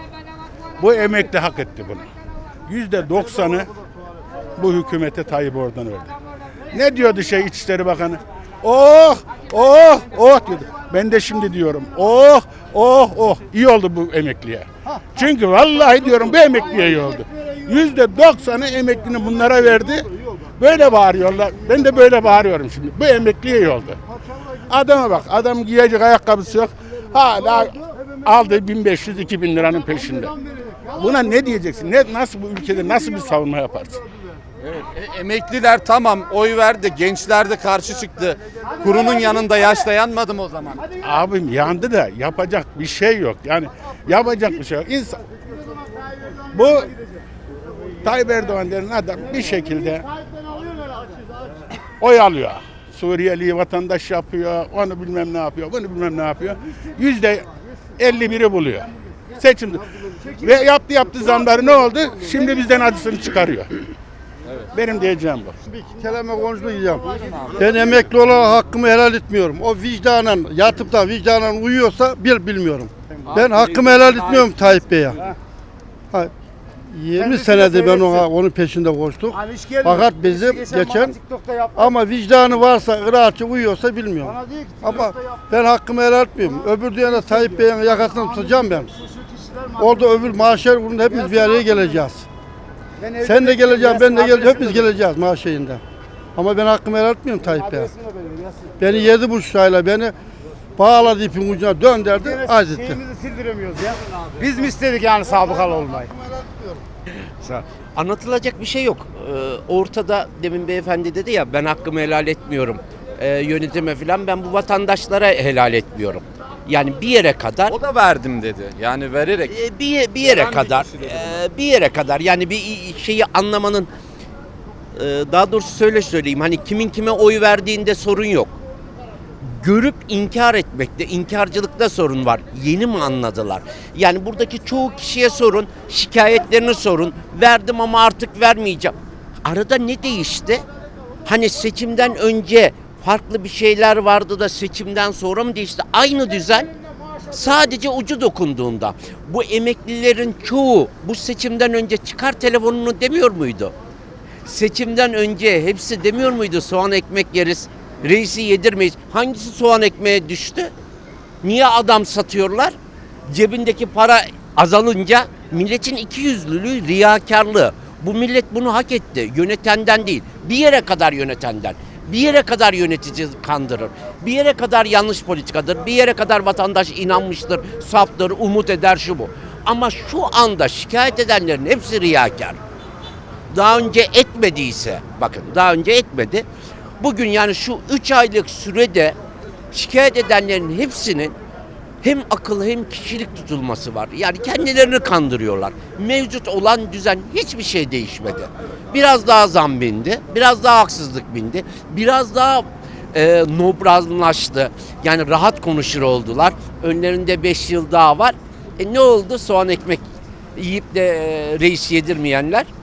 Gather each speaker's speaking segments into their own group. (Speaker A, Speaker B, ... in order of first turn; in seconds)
Speaker A: 0.8-2.1, 2.7-3.7, 4.6-6.1, 6.7-24.0, 24.6-30.3, 30.9-34.0, 41.0-45.2, 46.5-46.9, 48.0-50.1, 52.0-63.8, 64.7-65.6
Speaker B: 34.6-40.9, 67.0-68.0, 73.3-75.2, 117.7-119.6, 120.2-121.4
Speaker C: 65.8-75.2, 76.9-81.2, 81.8-88.9, 89.8-92.2, 93.2-95.8, 96.4-97.9, 98.8-100.1, 100.8-103.0
Speaker D: 81.2-81.7, 84.5-84.8, 93.9-94.1, 98.1-98.7, 103.0-106.1
Speaker E: 107.1-117.8, 119.5-123.9, 124.9-128.5, 129.4-140.6, 141.2-146.7, 147.3-153.7, 154.4-160.7, 161.4-162.8, 163.3-182.6, 183.5-186.5, 187.0-189.2, 189.7-191.3, 192.0-212.7